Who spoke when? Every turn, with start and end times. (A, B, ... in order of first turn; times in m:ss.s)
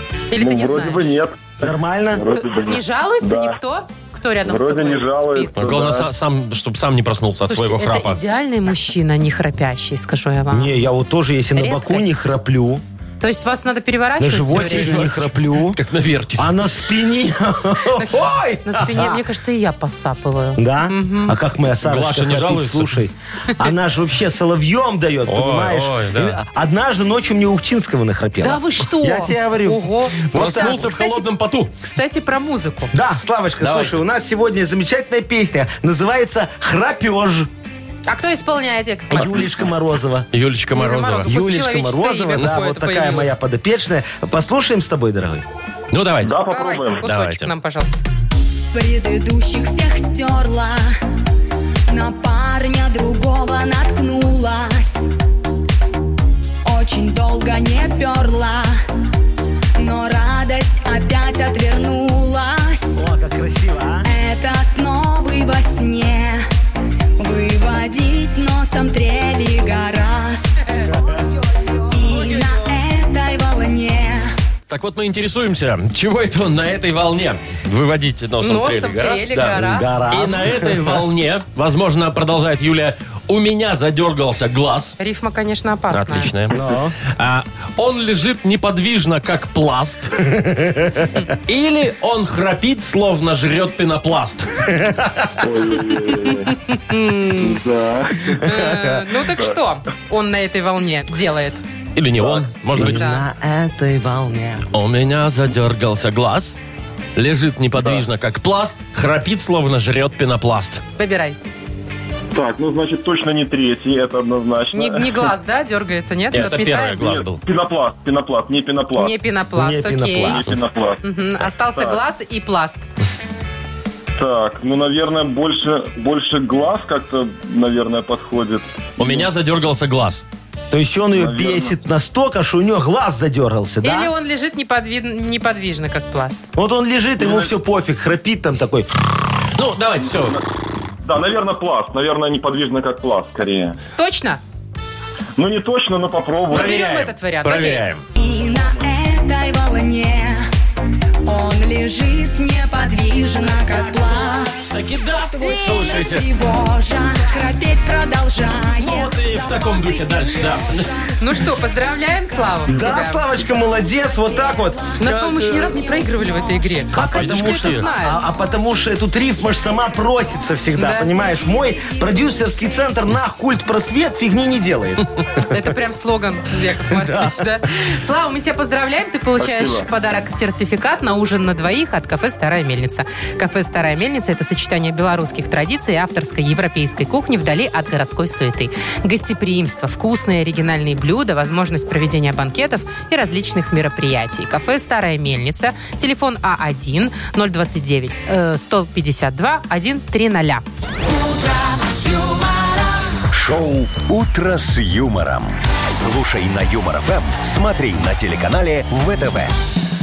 0:00.3-0:01.2 A
0:00.4-0:03.6 B
0:01.6-0:02.2 C
0:02.3-0:05.6 A
0:04.4-0:06.1 B
0:05.6-0:08.2 D
0:07.5-0:10.8 A
0:10.5-0:12.8 C
0:11.6-0:12.4 A
0:13.2-0:15.1 A
0:14.2-0:15.8 C
0:14.5-0:16.6 D
0:16.4-0:19.2 C
0:18.6-0:21.4 A
0:20.6-0:30.9 C
0:21.8-0:23.0 D
0:25.3-0:26.4 D
0:28.4-0:31.3 A
0:30.3-0:31.7 D
0:31.8-0:32.9 A
0:32.9-0:37.5 C
0:33.6-0:34.0 D
0:38.1-0:39.4 A
0:39.1-0:40.3 C
0:40.3-0:41.3 D
0:40.8-0:43.4 A
0:41.2-0:45.4 C
0:45.9-0:46.4 D
0:46.2-0:47.1 B
0:46.5-0:48.0 A
0:47.0-0:47.5 D
0:48.7-0:50.9 E
0:51.9-0:55.1 E
0:56.6-0:58.8 E
0:59.8-1:03.0 E
1:03.0-1:04.1 C
1:04.0-1:06.4 E
1:07.2-1:14.3 E
1:10.9-1:11.2 C
1:12.1-1:12.6 A
1:14.7-1:25.0 D
1:18.4-1:20.1 A
1:19.6-1:21.0 C
1:25.0-1:26.3 A
1:25.9-1:30.3 D
1:26.5-1:27.0 C
1:30.3-1:31.1 C
1:31.5-1:34.7 D
1:34.8-1:35.4 C
1:35.4-1:36.6 B
1:36.3-1:37.6 A
1:37.4-1:38.8 B
1:38.4-1:41.6 A
1:42.0-1:43.1 D
1:42.7-1:44.7 C
1:42.8-1:43.2 A
1:44.7-1:46.6 D
1:47.2-1:50.8 D
1:47.8-1:48.0 B
1:51.0-1:51.4 A
1:52.3-1:55.3 B
1:54.7-1:57.0 A
1:56.3-1:57.4 D
1:57.0-1:59.2 B
1:59.0-2:00.5 A
1:59.5-2:00.5 C
2:00.2-2:01.1 B
2:01.0-2:02.9 A
2:01.7-2:02.0 B
2:04.2-2:09.3 B
2:09.0-2:10.2 D
2:10.7-2:14.1 C
2:11.1-2:11.8 B
2:13.8-2:16.4 A
2:16.6-2:18.9 C
2:17.2-2:17.5 B
2:19.6-2:20.4 D
2:20.1-2:20.4 B
2:21.0-2:23.8 B
2:24.0-2:24.4 A
2:25.4-2:26.8 B
2:26.5-2:27.8 A
2:26.5-2:28.0 D
2:28.2-2:30.5 E
2:31.2-2:41.2 E
2:33.4-2:34.3 C
2:34.6-2:36.3 D
2:38.8-2:41.1 D
2:41.2-2:43.3 A
2:42.7-2:45.8 C
2:43.5-2:46.9 E
2:45.0-2:48.2 A
2:46.9-2:55.1 C
2:47.0-2:47.8 D
2:50.8-2:51.2 A
2:51.1-2:52.1 E
2:55.5-3:20.6 A
2:56.9-2:57.4 C
2:59.4-2:59.9 B
3:23.3-3:29.5 F